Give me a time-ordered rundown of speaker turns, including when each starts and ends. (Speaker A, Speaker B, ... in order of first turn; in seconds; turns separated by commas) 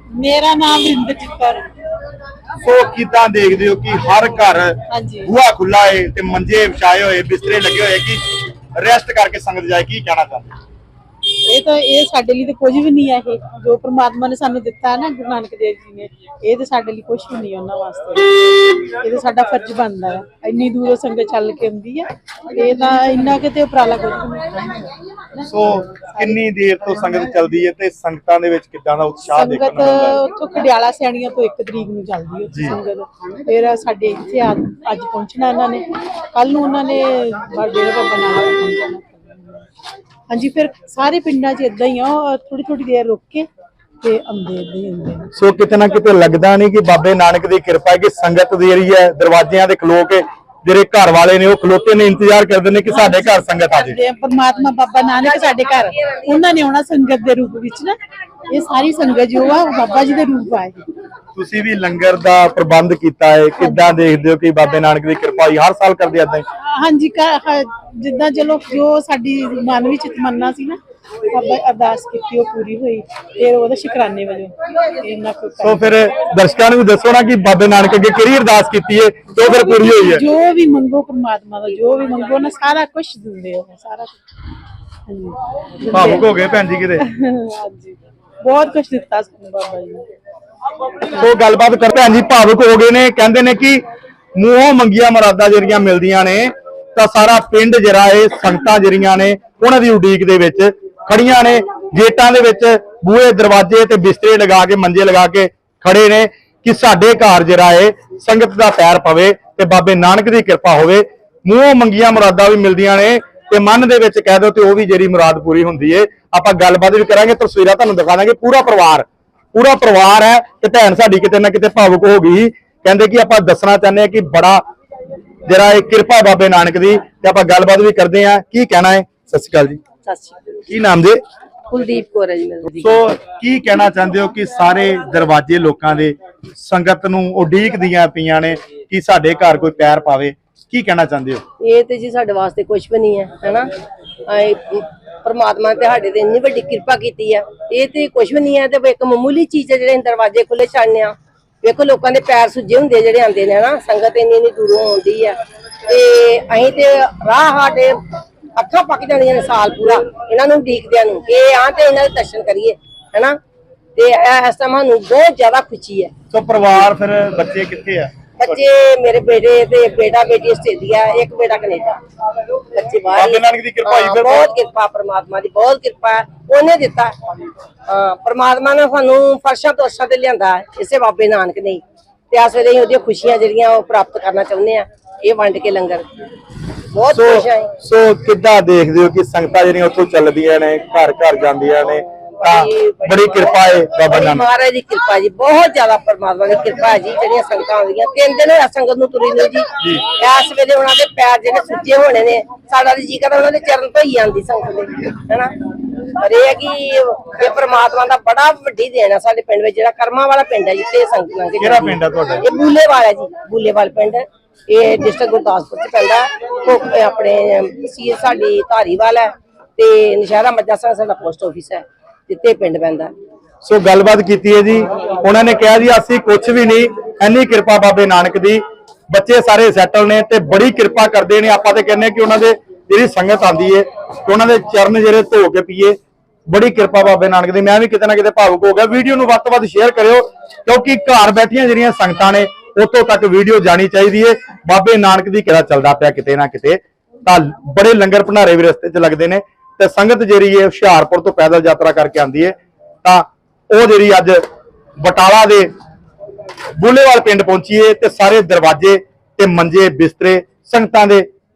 Speaker A: 0.1-1.7, Speaker B: 2.6-10.6, Speaker A: 4.9-5.3, Speaker A: 11.4-24.7, Speaker B: 25.4-30.2, Speaker A: 29.3-39.6, Speaker B: 32.5-32.8, Speaker A: 40.3-43.5, Speaker A: 44.0-45.3, Speaker B: 45.3-54.0, Speaker A: 52.9-58.0, Speaker C: 55.5-56.3, Speaker A: 58.5-60.9, Speaker B: 61.4-66.5, Speaker A: 66.7-76.0, Speaker B: 75.6-80.3, Speaker A: 79.4-84.2, Speaker A: 85.1-86.3, Speaker B: 85.9-87.0, Speaker A: 87.0-90.1, Speaker B: 91.1-93.8, Speaker B: 94.4-124.6, Speaker B: 125.5-129.8, Speaker C: 130.1-130.5, Speaker B: 130.7-131.2, Speaker C: 131.7-133.0, Speaker B: 132.8-141.4, Speaker C: 141.6-143.7, Speaker C: 144.3-155.4, Speaker C: 155.9-158.0, Speaker C: 158.6-163.4, Speaker C: 164.0-166.1, Speaker B: 166.3-168.3, Speaker C: 168.4-172.0, Speaker C: 172.7-177.1, Speaker B: 173.1-174.5, Speaker C: 177.9-186.1, Speaker C: 186.9-187.7, Speaker B: 187.1-194.5, Speaker C: 192.4-223.1, Speaker B: 211.6-212.5, Speaker B: 223.6-254.4, Speaker B: 255.0-255.7, Speaker B: 256.8-261.3